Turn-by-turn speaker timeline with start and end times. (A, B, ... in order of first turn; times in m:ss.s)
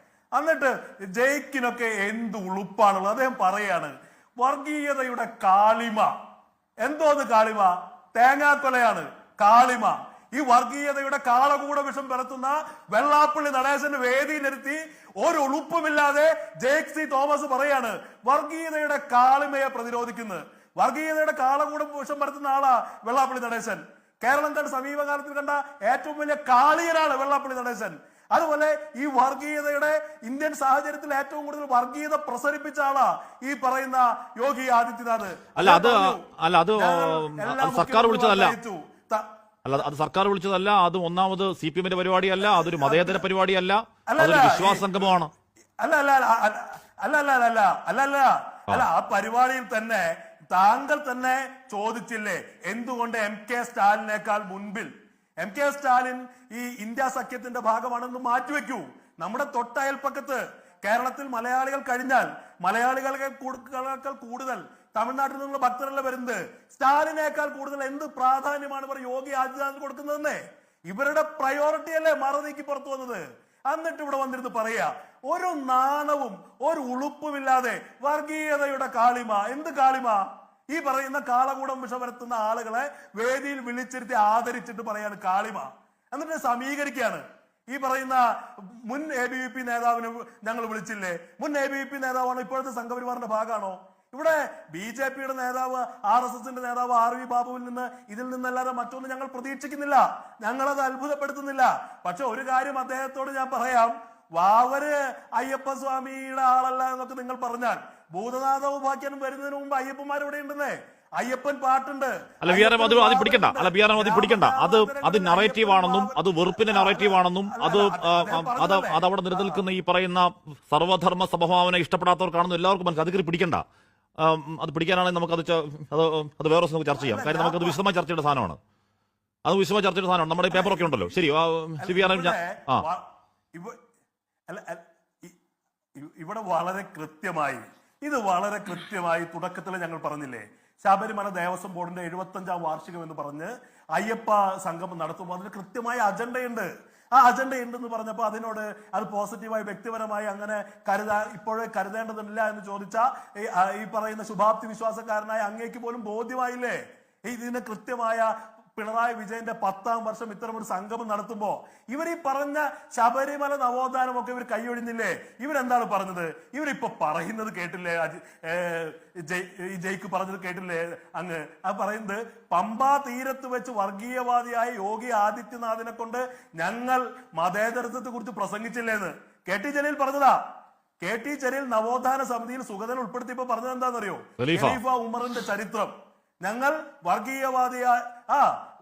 0:00.4-0:06.1 A
0:06.8-0:36.2 A
0:35.6-0:38.6 B
0:36.8-0:39.3 A
0:39.6-0:45.3 B
0:42.4-0:43.2 A
0:44.1-0:44.9 A
0:45.8-0:54.9 A
0:55.4-1:59.6 A
1:52.4-2:03.6 B
2:04.2-2:08.6 B
2:06.9-2:07.8 A
2:09.4-2:12.8 B
2:10.5-2:11.2 A
2:11.8-2:13.8 A
2:14.5-2:15.4 A
2:16.0-3:00.4 A
3:01.0-3:08.5 A
3:04.4-3:04.8 B